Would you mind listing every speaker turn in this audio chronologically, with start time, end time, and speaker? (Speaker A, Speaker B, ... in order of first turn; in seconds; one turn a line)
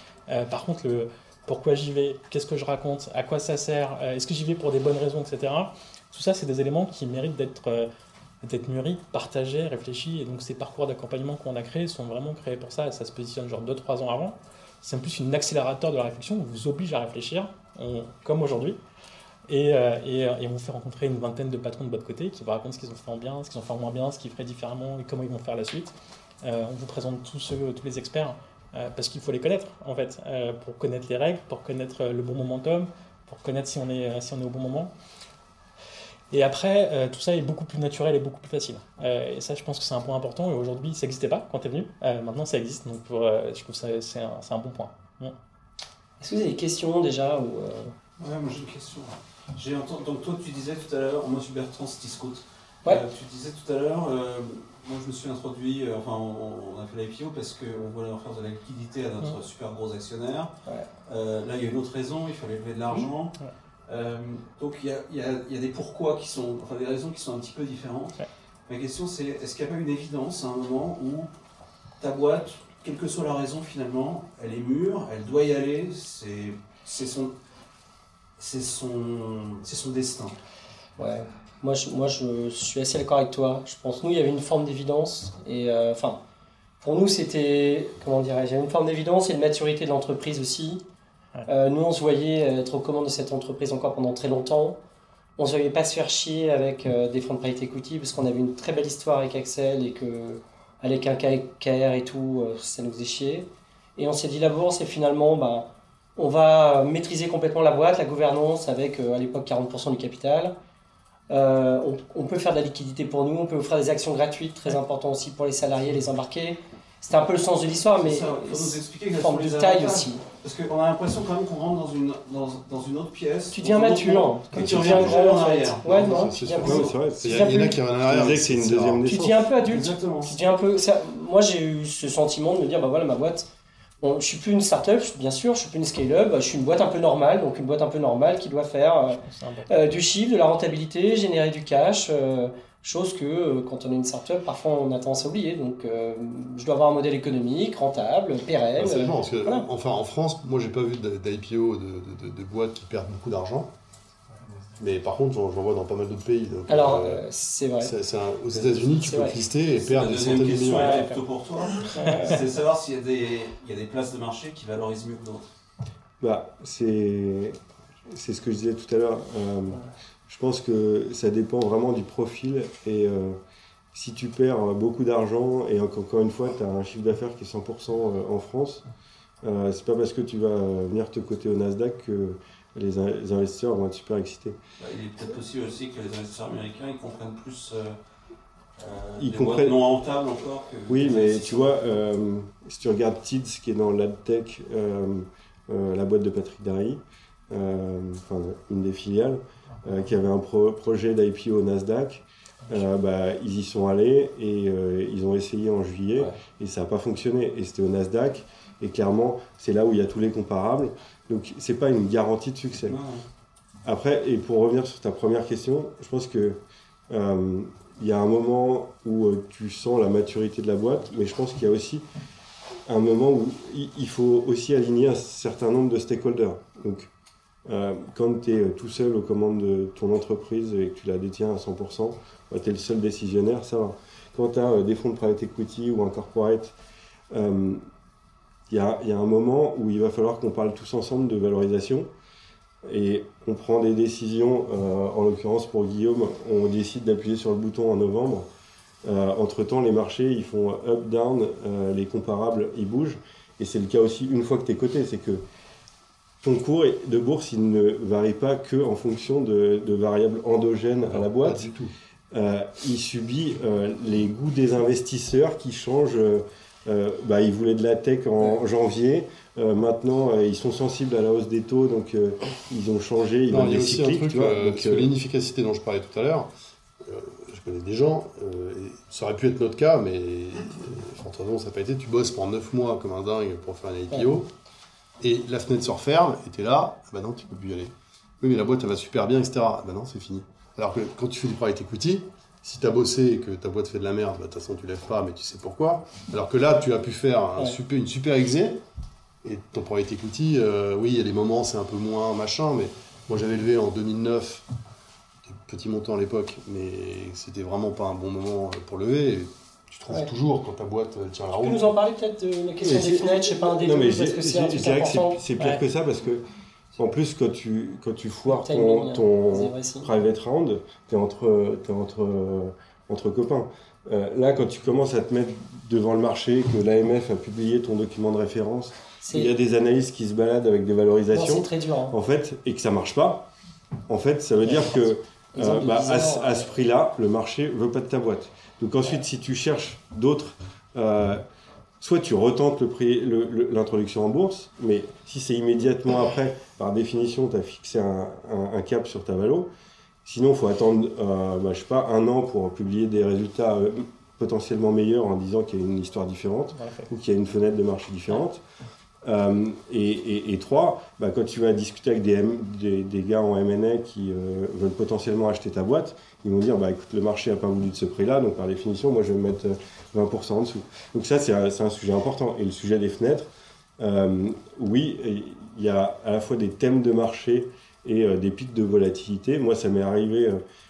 Speaker A: 0.3-7.9
Speaker A: 8.4-18.8
Speaker A: 19.5-34.9
Speaker A: 36.3-45.4
Speaker B: 46.2-47.9
Speaker C: 48.2-60.5
Speaker C: 61.1-63.3
Speaker C: 63.9-68.2
Speaker C: 68.7-71.3
Speaker C: 72.0-77.3
Speaker C: 78.4-80.4
Speaker B: 81.0-86.2
Speaker B: 86.8-90.8
Speaker B: 91.5-94.8
Speaker B: 95.4-110.5
Speaker B: 111.3-120.2
Speaker C: 117.9-126.8
Speaker B: 123.5-127.8
Speaker D: 124.6-125.3
Speaker D: 125.9-129.0
Speaker E: 126.6-129.5
Speaker B: 129.1-133.5
Speaker C: 129.6-130.4
Speaker B: 134.0-149.7
Speaker A: 139.3-139.9
Speaker D: 148.8-153.7
Speaker D: 154.8-157.2
Speaker B: 156.7-157.9
Speaker D: 157.8-161.0
Speaker B: 158.5-159.4
Speaker C: 159.8-165.5
Speaker B: 160.7-161.2
Speaker B: 161.8-162.3
Speaker E: 166.2-173.4
Speaker E: 173.9-178.8
Speaker E: 179.4-184.6
Speaker C: 184.8-188.0
Speaker C: 188.8-192.0
Speaker E: 189.2-189.8
Speaker E: 190.9-213.0
Speaker C: 212.8-213.2
Speaker E: 213.8-222.1
Speaker E: 222.9-227.1
Speaker E: 227.7-236.8
Speaker E: 237.3-237.8
Speaker E: 238.7-242.1
Speaker E: 242.8-248.5
Speaker E: 249.0-255.4
Speaker E: 256.4-261.7
Speaker D: 261.1-261.9
Speaker E: 262.3-275.1
Speaker D: 273.5-276.5
Speaker D: 277.0-284.5
Speaker D: 285.2-298.8
Speaker D: 299.4-304.7
Speaker D: 305.5-311.9
Speaker B: 311.5-315.4
Speaker E: 312.8-316.4
Speaker E: 317.0-333.5
Speaker B: 318.5-320.1
Speaker B: 329.2-329.5
Speaker B: 331.3-332.2
Speaker E: 334.1-341.4
Speaker B: 335.6-336.7
Speaker E: 342.0-349.7
Speaker E: 350.2-358.6
Speaker A: 356.8-357.1
Speaker E: 359.2-380.6